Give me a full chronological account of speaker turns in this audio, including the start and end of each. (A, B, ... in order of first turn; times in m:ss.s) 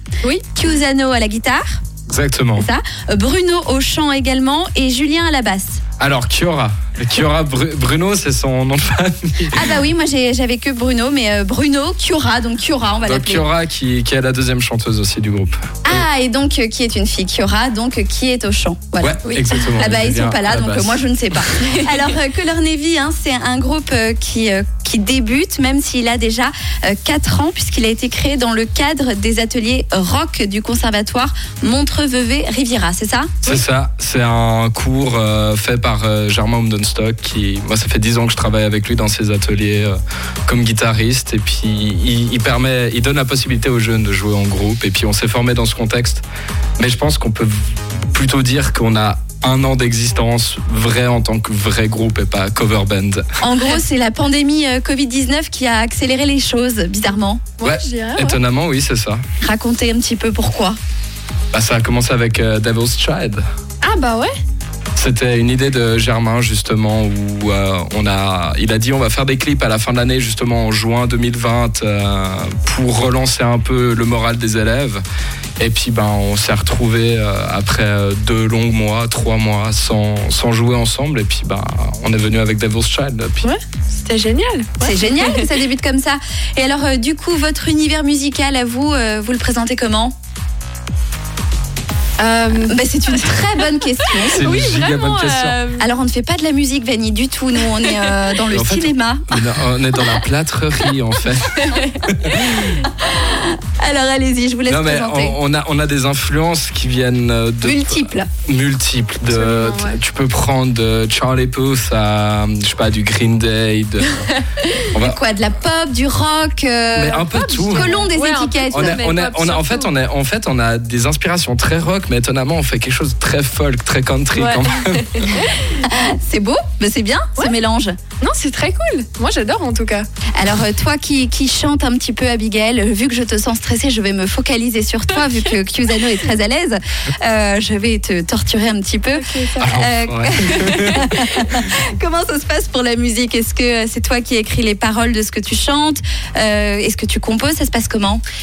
0:00.5-0:01.8 A
0:02.1-0:02.7 B
0:02.6-0:05.8 A
0:06.0-0:09.8 B
0:09.5-0:13.5 A
0:13.0-0:16.0 B
0:15.8-0:33.4 A
0:19.0-0:21.5 B
0:33.4-0:40.0 B
0:40.5-0:46.2 B
0:46.8-0:53.2 B
0:53.4-0:57.4 A
0:57.6-0:58.4 C
0:57.6-0:59.2 B
0:59.4-1:00.8 A
1:01.5-1:03.4 B
1:03.8-1:04.3 C
1:05.0-1:15.0 B
1:15.6-1:23.5 B
1:23.4-1:25.5 C
1:24.8-1:30.1 A
1:32.2-1:32.8 C
1:32.6-1:34.4 A
1:34.3-1:35.6 B
1:34.4-1:35.8 C
1:35.8-1:39.4 A
1:38.5-1:42.6 B
1:41.6-1:42.0 C
1:42.5-1:45.4 A
1:44.7-1:54.3 B
1:47.6-1:48.3 A
1:49.3-1:50.0 C
1:54.9-1:55.2 B
1:54.9-1:59.1 A
1:57.0-1:57.9 B
1:57.3-1:59.9 C
1:58.7-2:05.4 B
2:04.3-2:05.7 C
2:05.6-2:08.0 A
2:08.2-2:10.1 C
2:10.4-2:28.2 A
2:19.2-2:19.7 C
2:19.6-2:21.4 B
2:20.5-2:20.9 C